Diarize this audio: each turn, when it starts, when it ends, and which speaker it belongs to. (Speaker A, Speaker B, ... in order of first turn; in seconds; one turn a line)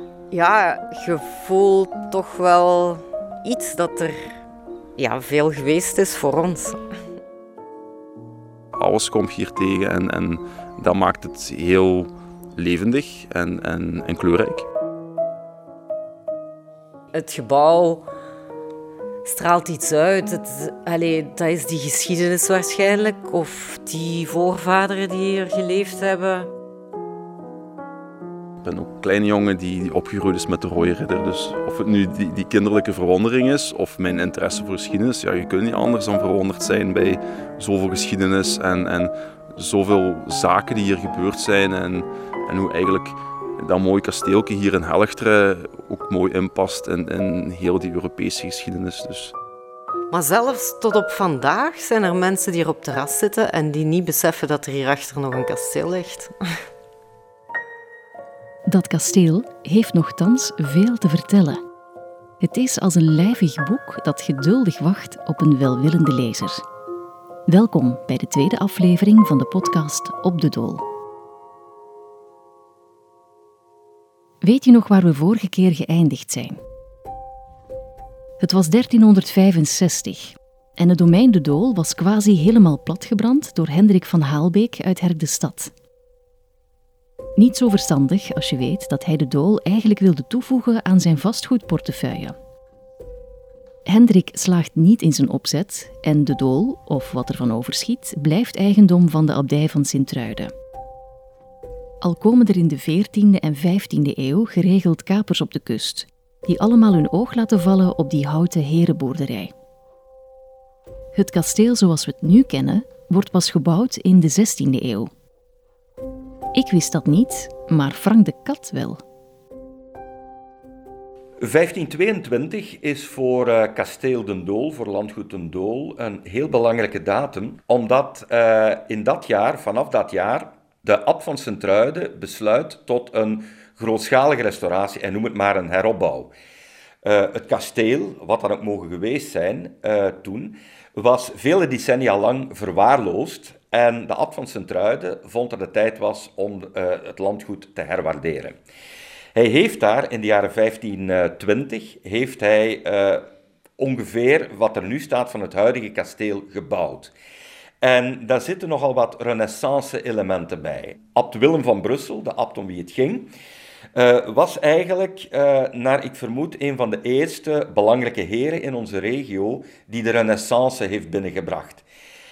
Speaker A: 0.3-4.3
Speaker A: 5.0-6.8
Speaker B: 8.8-14.7
Speaker A: 17.1-18.1
Speaker A: 19.3-26.5
Speaker B: 28.6-49.3
Speaker A: 50.1-56.3
Speaker C: 58.7-61.6
Speaker C: 62.4-66.6
Speaker C: 67.5-70.8
Speaker C: 74.4-76.6
Speaker C: 78.4-85.7
Speaker C: 87.4-92.3
Speaker C: 93.9-100.5
Speaker C: 102.0-109.5
Speaker C: 111.1-115.1
Speaker C: 116.5-119.0
Speaker D: 121.4-136.3
Speaker D: 137.0-148.6
Speaker D: 149.3-153.2
Speaker D: 153.8-157.1
Speaker D: 157.8-163.3
Speaker D: 163.9-171.8